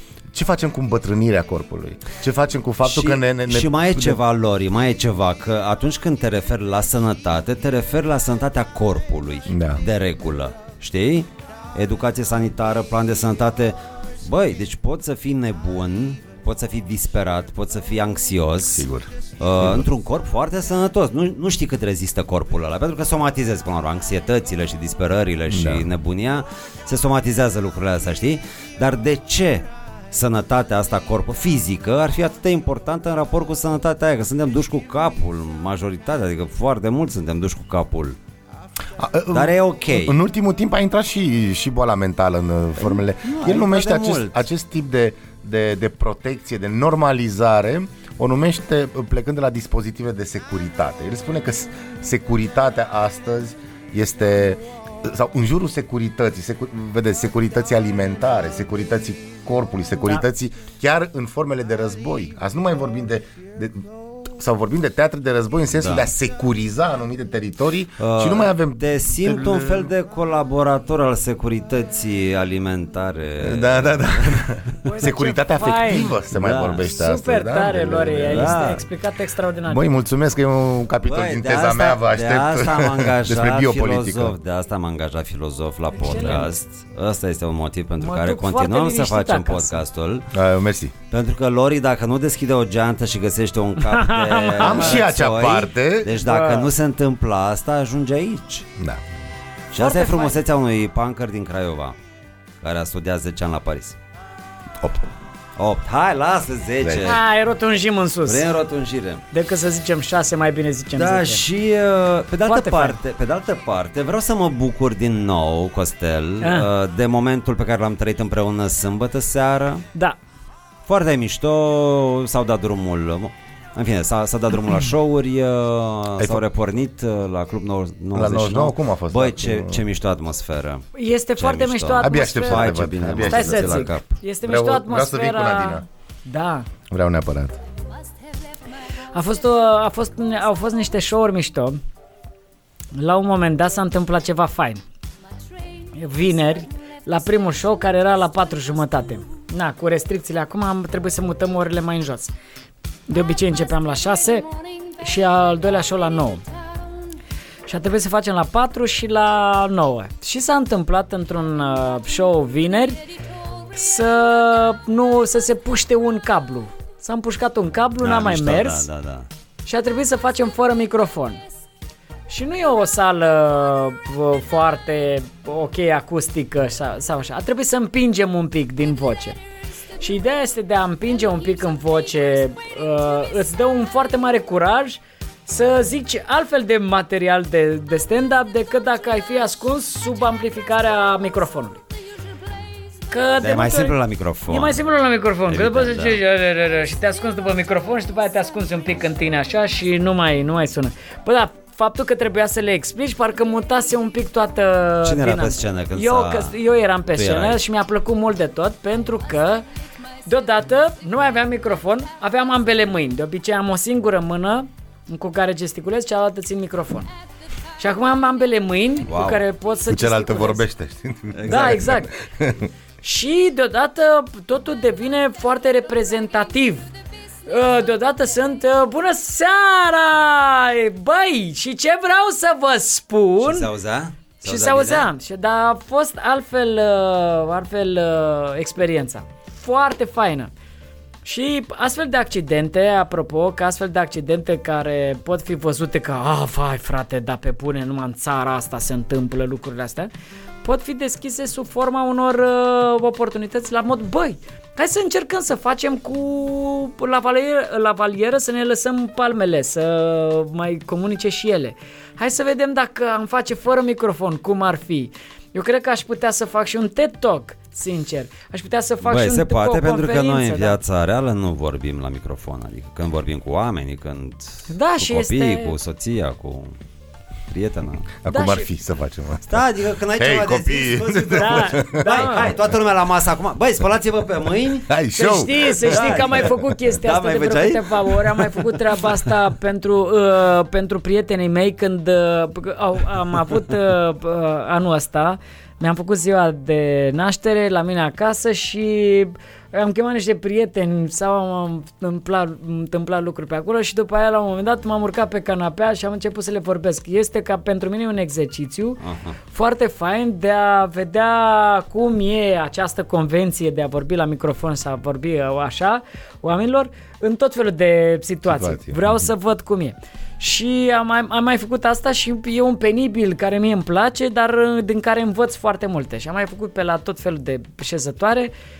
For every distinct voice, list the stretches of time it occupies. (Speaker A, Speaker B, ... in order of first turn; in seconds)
Speaker A: 0.3-4.2, 9.5-9.8, 18.6-19.9, 25.5-25.9, 39.0-69.9, 73.4-78.6, 79.7-84.4, 90.3-90.9, 94.6-96.1, 104.8-105.1, 106.8-107.1, 126.2-126.4, 128.1-129.8, 132.0-133.9, 134.4-135.8, 136.9-137.6, 219.9-222.7, 278.2-282.4, 284.9-286.5, 318.4-319.3
Speaker B: 2.8-18.9, 19.4-38.2, 39.3-40.2, 42.8-44.5, 65.7-66.1, 68.0-74.5, 76.3-76.8, 78.3-78.8, 81.0-90.3, 91.1-98.7, 99.7-102.0, 102.6-104.0, 105.6-107.2, 108.3-109.2, 111.0-119.8, 120.9-130.8, 131.4-134.2, 168.0-169.3, 193.4-194.8, 195.5-196.2, 205.0-206.6, 207.1-207.6, 219.1-219.4, 221.3-221.9, 233.4-235.1, 269.0-276.8, 277.5-278.1, 279.5-284.9, 285.9-288.8, 309.0-309.4
Speaker C: 74.9-76.1, 76.9-79.9, 85.9-86.5, 88.0-89.8, 93.8-95.0, 96.2-96.7, 99.7-100.4, 107.0-108.5, 109.3-111.4, 112.5-113.0, 116.4-116.7, 130.9-136.7, 139.1-141.8, 142.9-144.8, 145.9-152.3, 153.1-156.4, 157.7-163.0, 163.7-168.9, 169.7-171.4, 172.3-179.4, 180.0-191.8, 193.1-194.0, 194.5-209.6, 210.3-217.1, 217.8-220.6, 221.5-222.1, 223.0-226.9, 227.5-233.7, 234.4-240.5, 241.2-250.1, 250.6-270.8, 274.7-275.8, 278.3-278.7, 281.3-282.5, 285.2-328.5